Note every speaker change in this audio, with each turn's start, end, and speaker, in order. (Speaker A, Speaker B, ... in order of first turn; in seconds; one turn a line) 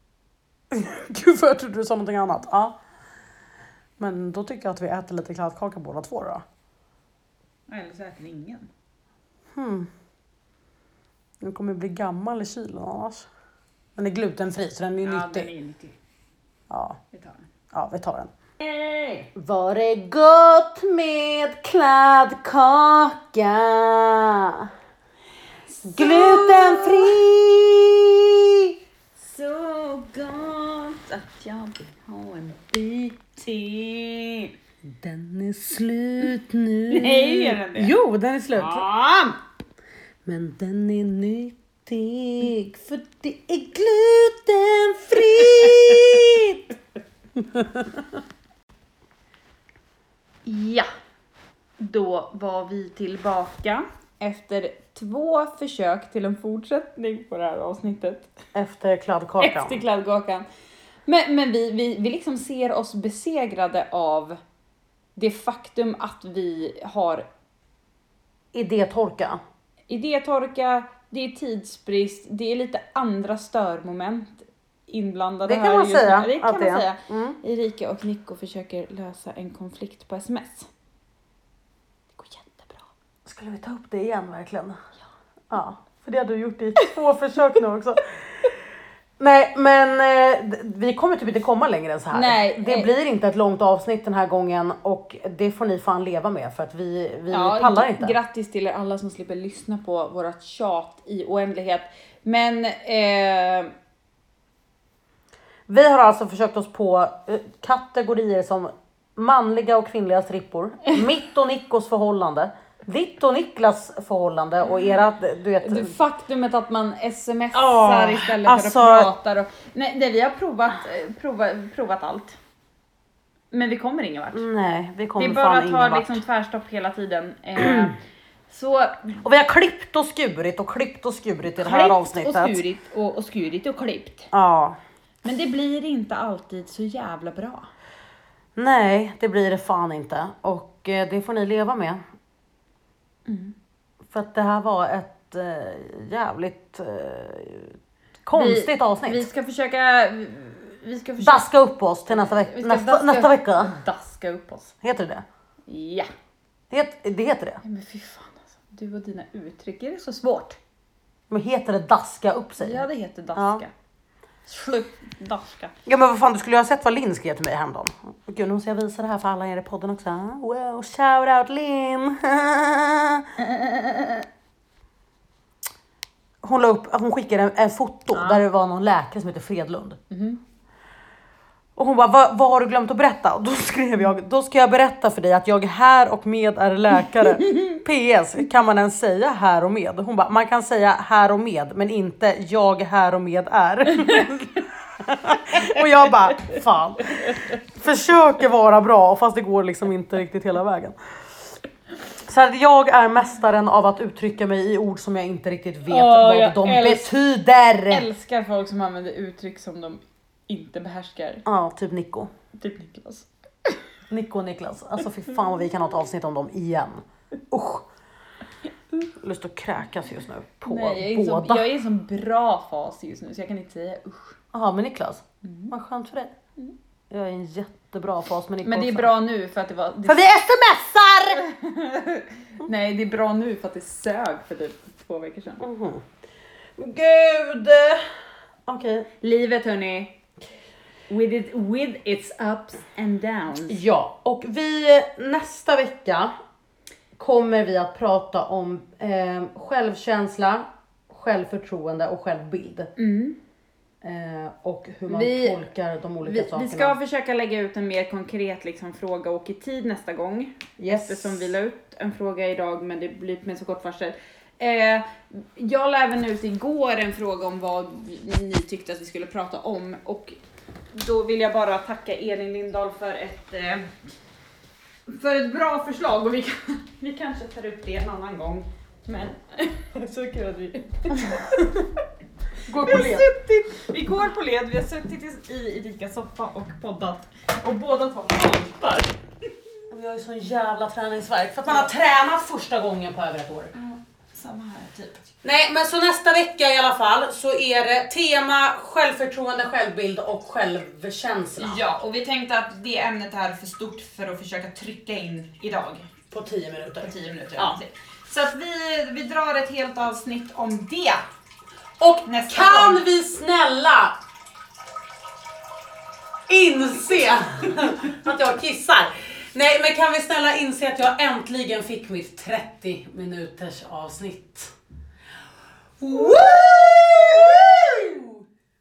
Speaker A: 0.7-2.8
Speaker A: 4.0-6.4
Speaker B: 7.7-8.7
Speaker A: 9.5-9.9
Speaker A: 11.4-13.3
Speaker A: 14.0-15.5
Speaker B: 15.0-15.9
Speaker A: 16.7-17.0
Speaker B: 17.1-17.5
Speaker A: 17.7-18.3
Speaker B: 18.6-19.3
Speaker A: 19.3-24.7
Speaker B: 25.7-27.2
Speaker A: 25.8-28.8
Speaker B: 29.2-34.5
Speaker A: 34.8-38.9
Speaker B: 36.9-37.9
Speaker B: 38.5-39.3
Speaker A: 40.2-46.7
Speaker B: 45.3-46.0
Speaker A: 47.4-48.1
Speaker B: 50.4-50.9
Speaker B: 51.8-58.3
Speaker A: 58.5-59.8
Speaker B: 59.4-60.5
Speaker B: 61.0-64.4
Speaker B: 65.2-67.2
Speaker A: 68.5-69.4
Speaker B: 69.9-80.7
Speaker A: 75.4-77.4
Speaker B: 82.2-82.9
Speaker A: 83.2-84.8
Speaker A: 85.5-88.5
Speaker A: 89.2-98.1
Speaker B: 92.1-92.9
Speaker B: 97.3-103.7
Speaker A: 105.7-115.9
Speaker B: 115.6-122.4
Speaker A: 117.5-119.1
Speaker B: 123.5-124.5
Speaker A: 124.3-126.2
Speaker B: 125.2-129.2
Speaker A: 127.6-128.0
Speaker A: 129.2-132.6
Speaker B: 131.6-134.3
Speaker A: 134.3-134.8
Speaker B: 135.2-137.7
Speaker A: 138.6-142.0
Speaker B: 143.2-143.5
Speaker A: 144.0-149.2
Speaker B: 148.3-151.5
Speaker A: 151.2-153.7
Speaker B: 152.1-154.7
Speaker A: 154.8-155.2
Speaker B: 155.7-156.1
Speaker A: 156.7-157.6
Speaker B: 157.6-160.6
Speaker A: 161.3-163.6
Speaker B: 162.6-163.7
Speaker B: 164.5-165.7
Speaker A: 165.8-173.3
Speaker B: 173.4-174.2
Speaker A: 176.4-180.0
Speaker B: 178.1-178.4
Speaker B: 180.1-180.4
Speaker A: 181.8-201.0
Speaker B: 187.4-187.8
Speaker B: 197.2-197.6
Speaker A: 202.2-208.1
Speaker B: 205.9-207.1
Speaker B: 207.9-211.4
Speaker A: 211.4-212.3
Speaker B: 212.5-213.8
Speaker A: 214.1-217.9
Speaker A: 219.2-221.7
Speaker B: 220.7-224.4
Speaker A: 224.5-226.3
Speaker B: 225.4-225.7
Speaker A: 227.1-229.1
Speaker B: 228.6-230.2
Speaker A: 230.1-231.4
Speaker B: 231.3-235.6
Speaker A: 235.6-236.0
Speaker A: 236.8-238.1
Speaker A: 238.7-239.1
Speaker B: 239.2-240.2
Speaker B: 241.1-243.8
Speaker A: 243.7-246.3
Speaker A: 247.2-252.9
Speaker B: 253.0-253.4
Speaker A: 254.0-256.9
Speaker B: 255.1-255.6
Speaker B: 256.2-270.4
Speaker A: 260.8-261.4
Speaker B: 270.9-273.9
Speaker B: 275.1-281.9
Speaker A: 282.7-283.3
Speaker B: 282.8-289.1
Speaker A: 289.9-293.7
Speaker B: 293.7-295.2
Speaker A: 295.4-301.8
Speaker B: 301.6-306.1
Speaker A: 306.3-307.7
Speaker B: 307.0-311.2
Speaker A: 312.0-314.2
Speaker B: 312.2-313.0
Speaker A: 316.5-324.7
Speaker A: 326.0-328.4
Speaker B: 326.1-326.5
Speaker B: 327.6-327.9